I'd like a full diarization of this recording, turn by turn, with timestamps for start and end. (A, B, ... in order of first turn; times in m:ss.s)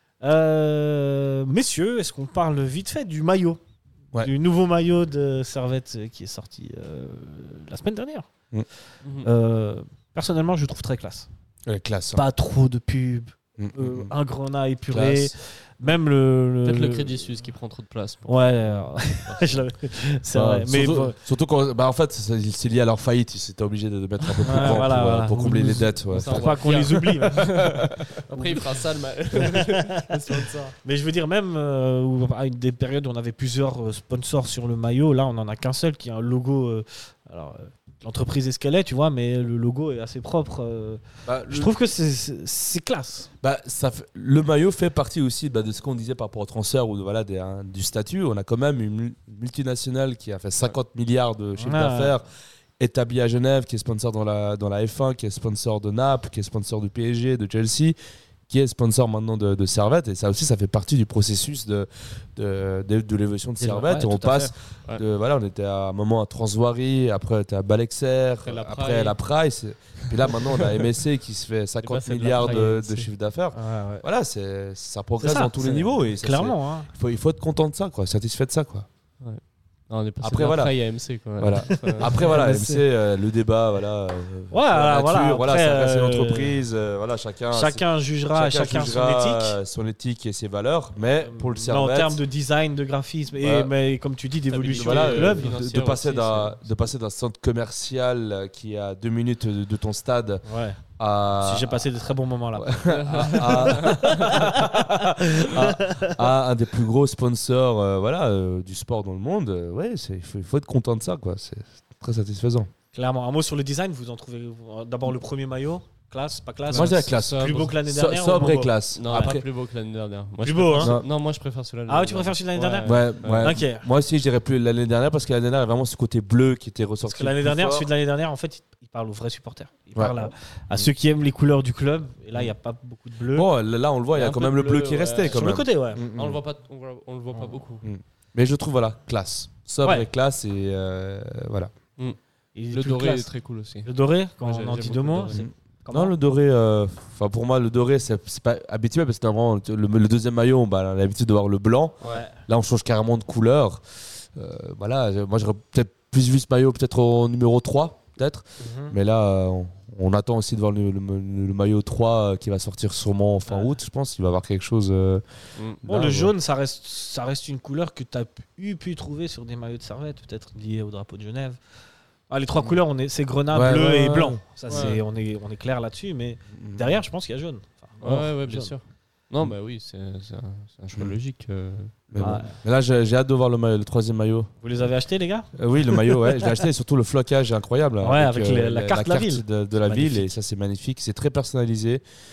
0:00.2-0:03.6 A
0:04.2-0:08.3 A
0:09.0-0:09.3 B
0:09.2-0:11.3 A
0:11.7-0:12.2 C
0:12.1-0:17.4 A
0:13.6-0:14.1 C
0:14.9-0:15.3 C
0:16.6-0:19.7 B
0:18.3-0:21.2 A
0:20.3-0:26.7 C
0:24.3-0:24.8 B
0:24.4-0:27.5 A
0:26.1-0:30.7 B
0:29.3-0:29.6 A
0:30.8-0:43.3 A
0:41.3-0:41.7 C
0:43.4-0:52.3 C
0:51.6-0:52.2 A
0:52.8-0:58.0 C
0:58.5-1:18.9 C
1:03.6-1:04.5 A
1:08.4-1:09.2 B
1:10.1-1:10.8 B
1:11.8-1:13.1 B
1:12.3-1:12.8 A
1:13.5-1:14.0 A
1:15.2-1:16.9 A
1:19.2-1:22.1 B
1:20.2-1:32.2 C
1:21.7-1:22.9 A
1:24.5-1:26.6 A
1:27.5-1:29.6 A
1:31.2-1:35.6 A
1:33.4-1:33.7 C
1:34.5-1:36.7 B
1:34.7-1:40.4 C
1:40.4-1:40.8 A
1:41.0-1:41.8 C
1:41.4-1:46.2 A
1:42.6-1:52.7 C
1:42.9-1:44.3 B
1:52.9-1:59.4 A
1:56.6-1:57.8 B
1:56.8-1:59.4 C
1:59.0-2:03.6 B
2:00.4-2:01.0 A
2:00.8-2:01.1 C
2:01.9-2:03.9 A
2:02.8-2:07.9 C
2:07.0-2:13.5 A
2:10.0-2:10.9 C
2:13.3-2:16.4 C
2:14.1-2:17.9 B
2:15.3-2:16.0 A
2:17.8-2:21.7 C
2:22.6-2:23.3 A
2:22.7-2:23.9 B
2:23.8-2:26.2 A
2:24.4-2:25.4 B
2:25.3-2:33.8 C
2:32.0-2:32.4 A
2:34.4-2:45.2 C
2:38.6-2:39.0 A
2:43.5-2:43.7 A
2:45.8-2:46.3 C
2:45.8-2:51.6 A
2:52.3-2:58.8 A
2:53.5-2:54.9 C
2:54.7-2:55.0 B
2:56.5-2:57.0 C
2:58.0-3:02.4 B
3:02.1-3:04.5 C
3:02.2-3:02.6 A
3:04.6-3:06.4 A
3:05.6-3:12.0 C
3:08.0-3:10.4 A